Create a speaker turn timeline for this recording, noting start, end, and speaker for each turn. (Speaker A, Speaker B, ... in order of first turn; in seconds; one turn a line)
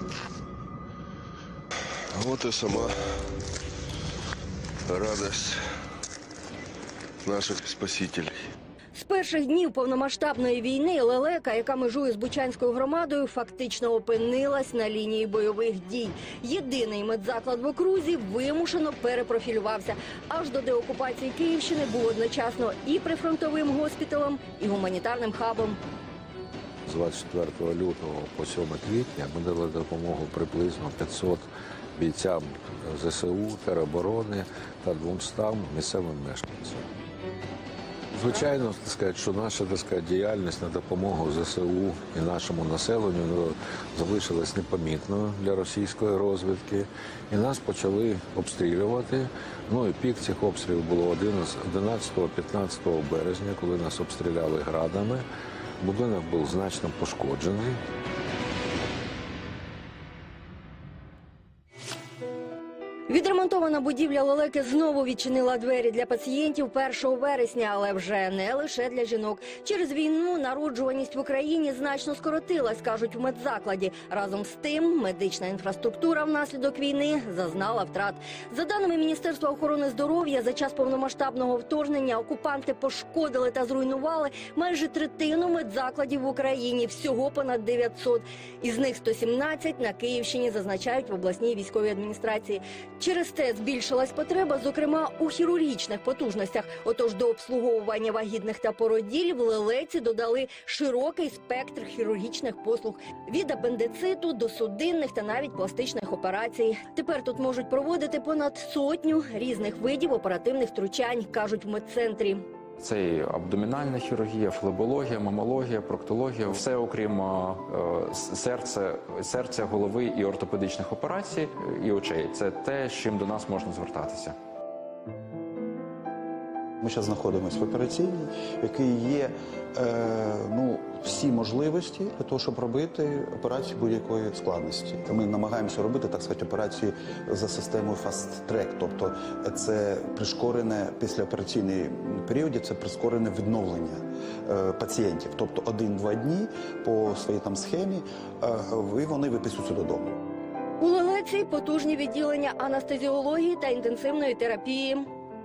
Speaker A: 2.1-3.0
Speaker A: 4.9-5.6
Speaker A: 7.2-8.5
Speaker B: 8.9-25.8
Speaker C: 26.9-31.4
Speaker C: 32.0-36.8
Speaker C: 38.1-55.2
Speaker C: 55.8-57.8
Speaker B: 63.1-112.4
Speaker D: 112.8-124.3
Speaker E: 126.8-150.2
Speaker B: 150.8-155.1